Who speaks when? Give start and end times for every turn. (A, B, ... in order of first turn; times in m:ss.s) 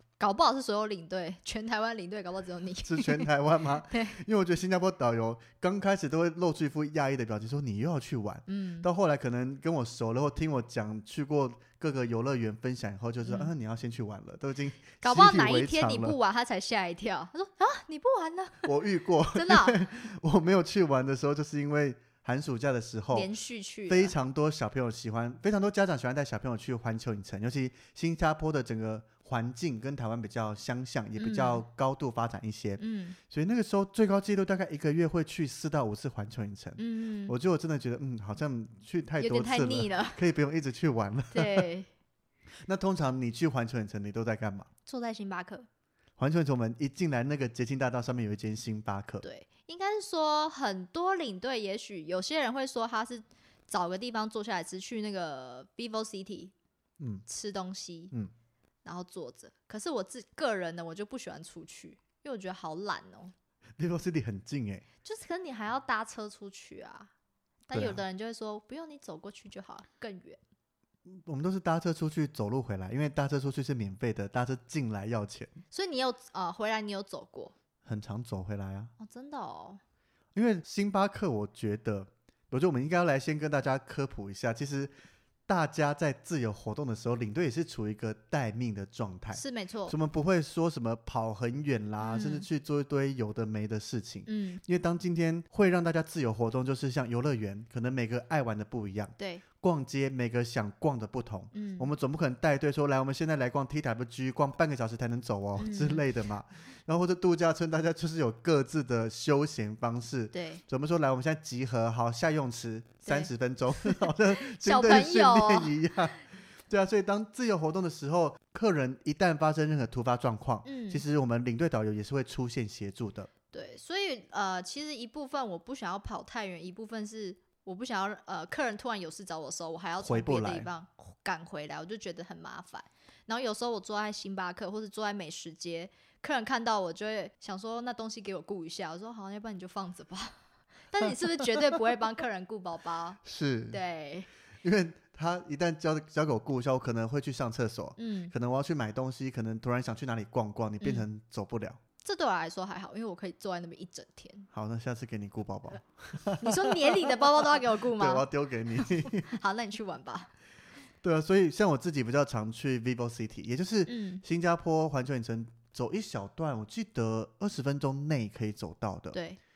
0:00.2-0:03.3 A
0:02.8-0:16.2 B
0:03.9-0:04.2 A
0:08.5-0:08.9 A
0:13.2-0:13.5 A
0:15.0-0:20.0 A
0:18.6-0:23.3 B
0:23.1-0:24.1 A
0:23.9-0:41.7 B
0:31.2-0:31.6 A
0:32.8-0:33.2 A
0:36.8-0:37.4 A
0:39.2-0:40.2 A
0:41.3-0:41.9 A
0:42.6-0:44.7 B
0:44.8-0:45.7 A
0:46.2-0:49.2 B
0:49.2-0:56.5 A
0:57.0-0:57.2 B
0:57.2-0:58.1 A
0:58.8-1:03.3 A
1:03.8-1:04.8 B
1:05.0-1:07.1 A
1:07.7-1:10.4 A
1:07.7-1:08.0 B
1:11.1-1:15.6 B
1:15.7-1:17.5 A
1:17.8-1:18.9 B
1:19.0-1:19.8 A
1:20.3-1:24.9 B
1:25.5-2:03.3 B
1:29.3-1:29.9 A
1:32.0-1:32.4 A
1:34.2-1:34.6 A
1:39.2-1:39.4 A
1:41.5-1:41.9 A
1:45.6-1:46.0 A
1:50.3-1:50.6 A
1:53.0-1:55.8 A
2:00.6-2:01.0 A
2:03.5-2:20.4 A
2:10.0-2:10.7 B
2:20.9-2:24.3 A
2:23.2-2:23.8 B
2:24.6-2:31.8 B
2:28.0-2:28.3 A
2:30.8-2:31.1 A
2:32.0-2:34.5 A
2:34.5-2:39.3 B
2:36.4-2:40.3 A
2:41.0-2:49.2 B
2:43.9-2:44.2 A
2:49.1-2:49.4 A